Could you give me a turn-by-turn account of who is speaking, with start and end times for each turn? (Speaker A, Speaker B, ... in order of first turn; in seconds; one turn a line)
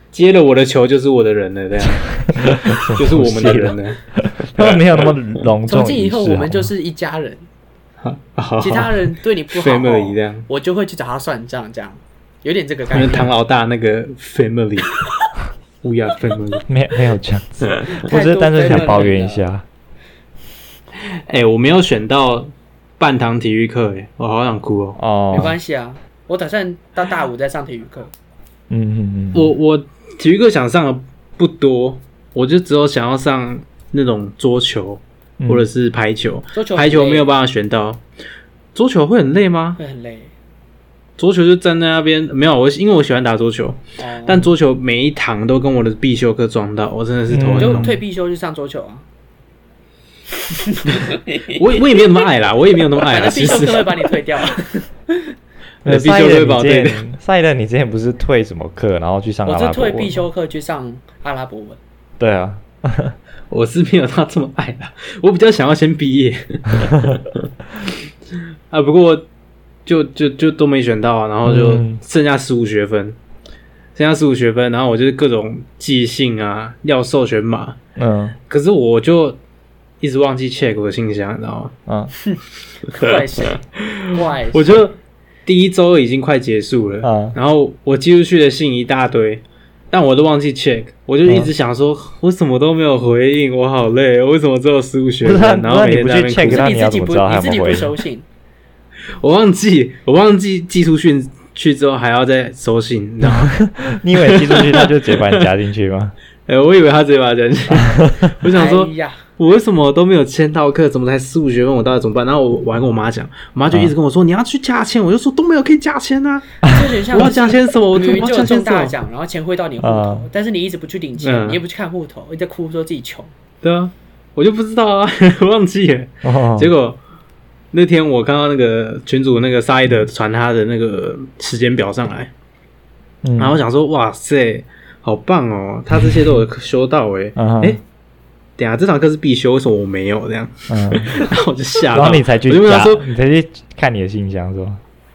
Speaker A: 0.1-5.5
Speaker B: 2.1-6.7
Speaker C: 5.7-7.5
Speaker A: 8.0-10.4
Speaker C: 8.6-13.3
Speaker A: 12.9-15.1
Speaker A: 15.8-16.6
Speaker B: 16.7-19.6
Speaker C: 17.9-19.4
Speaker A: 21.3-25.5
Speaker B: 25.0-25.5
Speaker C: 25.3-28.1
Speaker B: 28.7-29.5
Speaker A: 29.3-38.0
Speaker B: 35.4-35.7
Speaker C: 36.5-37.2
Speaker A: 38.7-39.8
Speaker C: 39.8-40.3
Speaker A: 41.2-48.0
Speaker C: 44.0-44.5
Speaker B: 47.3-47.9
Speaker C: 47.6-49.0
Speaker C: 50.6-51.5
Speaker A: 51.1-54.1
Speaker C: 53.0-54.8
Speaker A: 55.8-57.0
Speaker B: 55.8-60.2
Speaker C: 59.5-61.8
Speaker B: 62.2-63.1
Speaker A: 63.5-67.3
Speaker B: 66.9-67.2
Speaker A: 68.7-69.2
Speaker A: 69.8-73.2
Speaker B: 71.4-72.0
Speaker A: 74.0-77.8
Speaker B: 78.0-78.4
Speaker A: 78.5-79.4
Speaker A: 80.0-81.7
Speaker B: 81.9-82.1
Speaker C: 82.9-84.8
Speaker A: 83.8-84.9
Speaker A: 85.5-96.7
Speaker B: 87.0-87.3
Speaker B: 91.2-91.5
Speaker B: 95.2-97.9
Speaker C: 96.5-98.2
Speaker A: 99.2-103.5
Speaker B: 103.2-106.1
Speaker A: 104.1-105.5
Speaker A: 106.5-118.9
Speaker B: 107.8-108.3
Speaker C: 108.5-109.3
Speaker B: 116.6-116.9
Speaker C: 116.7-123.3
Speaker B: 119.8-120.3
Speaker A: 121.2-121.6
Speaker A: 123.6-127.0
Speaker B: 126.2-126.7
Speaker A: 127.7-132.3
Speaker B: 133.2-133.6
Speaker A: 133.4-137.8
Speaker B: 135.9-136.4
Speaker B: 137.4-137.8
Speaker A: 138.6-143.0
Speaker B: 140.7-141.3
Speaker B: 141.9-144.8